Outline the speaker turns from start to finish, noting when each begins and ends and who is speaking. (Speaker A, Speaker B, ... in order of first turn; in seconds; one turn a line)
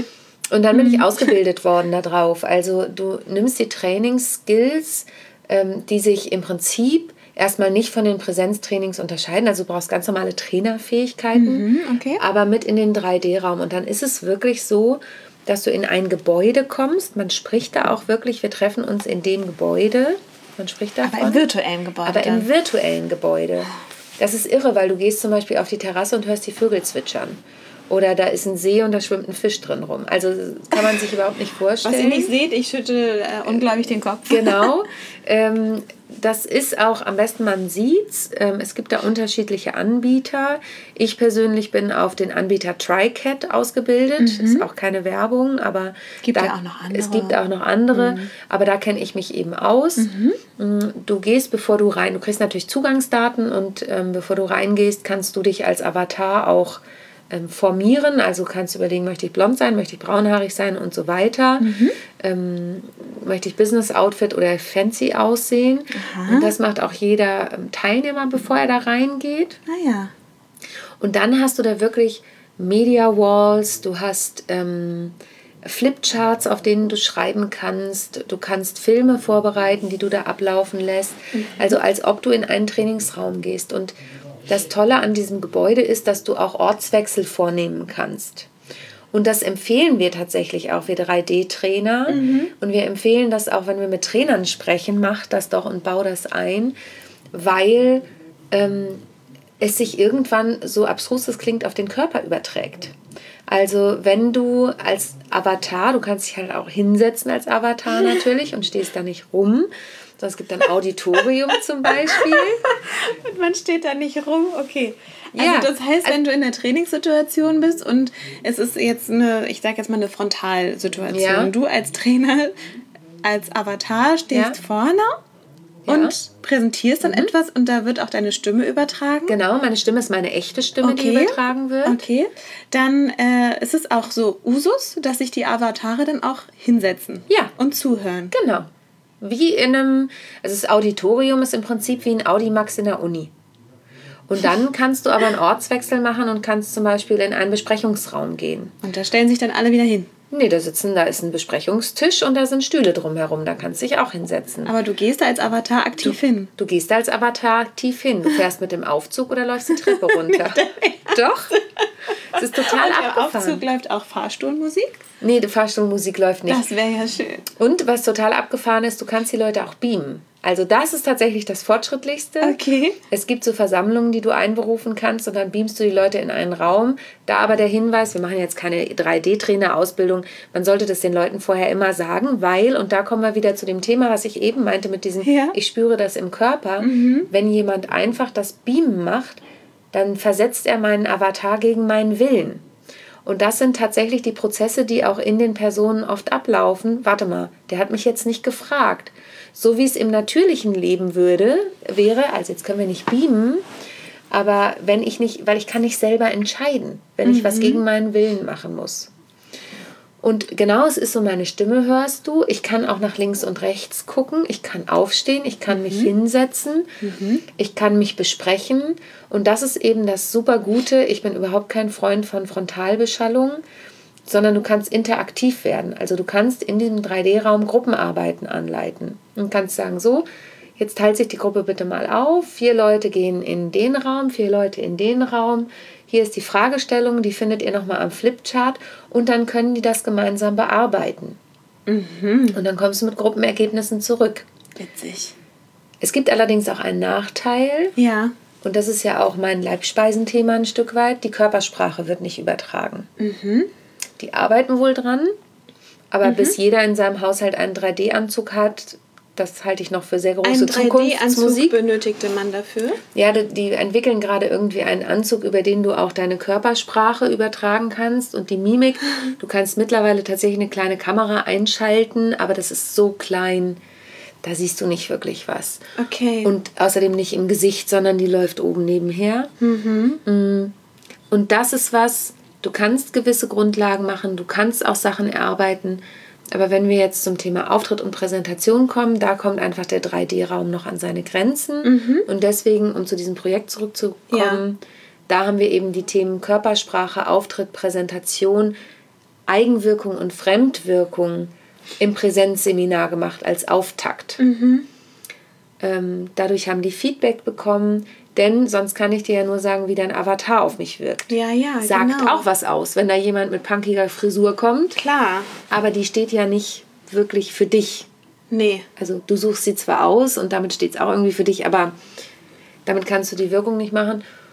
Speaker A: 0.5-11.7
Speaker B: 0.7-1.1
Speaker B: 11.3-12.2
Speaker A: 12.2-21.4
Speaker B: 21.0-22.5
Speaker A: 22.0-32.3
Speaker B: 31.8-34.7
Speaker A: 34.3-69.6
Speaker B: 44.2-44.6
Speaker B: 46.2-47.4
Speaker B: 47.9-48.3
Speaker B: 50.0-50.4
Speaker B: 61.6-62.0
Speaker B: 65.9-66.5
Speaker B: 69.7-70.1
Speaker A: 71.0-84.0
Speaker A: 84.5-88.5
Speaker A: 89.1-96.7
Speaker B: 92.1-92.5
Speaker A: 97.3-99.0
Speaker A: 99.6-102.9
Speaker A: 103.5-112.6
Speaker B: 112.0-122.5
Speaker A: 115.3-116.2
Speaker A: 121.1-121.5
Speaker B: 123.2-125.2
Speaker A: 124.3-124.6
Speaker A: 125.8-126.2
Speaker B: 125.9-129.4
Speaker A: 127.0-127.3
Speaker A: 129.3-132.0
Speaker B: 130.8-138.3
Speaker A: 138.3-138.7
Speaker A: 139.2-143.3
Speaker A: 144.3-148.7
Speaker B: 148.8-150.1
Speaker A: 150.3-154.7
Speaker B: 154.7-156.5
Speaker A: 156.0-161.5
Speaker B: 159.8-165.0
Speaker A: 162.3-163.6
Speaker A: 165.2-166.7
Speaker B: 166.5-167.5
Speaker A: 167.6-172.6
Speaker B: 172.4-173.0
Speaker A: 173.1-192.6
Speaker B: 185.2-185.5
Speaker B: 186.8-187.3
Speaker A: 193.2-203.7
Speaker A: 204.3-209.1
Speaker B: 207.2-207.8
Speaker A: 210.2-216.9
Speaker B: 215.7-216.1
Speaker B: 217.0-217.4
Speaker A: 217.5-223.6
Speaker A: 224.2-241.4
Speaker B: 241.9-242.6
Speaker A: 242.5-244.5
Speaker B: 244.8-245.3
Speaker A: 246.0-247.9
Speaker B: 247.9-248.3
Speaker A: 248.6-253.1
Speaker B: 253.2-253.7
Speaker A: 254.2-255.3
Speaker A: 256.1-261.8
Speaker B: 256.2-256.6
Speaker B: 260.4-263.0
Speaker A: 263.1-273.8
Speaker A: 274.4-275.8
Speaker B: 276.0-276.5
Speaker A: 276.4-279.5
Speaker B: 279.6-280.2
Speaker A: 280.2-280.7
Speaker A: 281.3-298.7
Speaker B: 291.8-292.3
Speaker B: 294.3-294.6
Speaker A: 299.5-304.4
Speaker B: 304.4-304.9
Speaker A: 305.8-315.0
Speaker B: 311.3-312.4
Speaker B: 314.9-315.5
Speaker A: 315.7-318.1
Speaker B: 318.5-318.9
Speaker A: 319.0-322.0
Speaker A: 322.8-324.2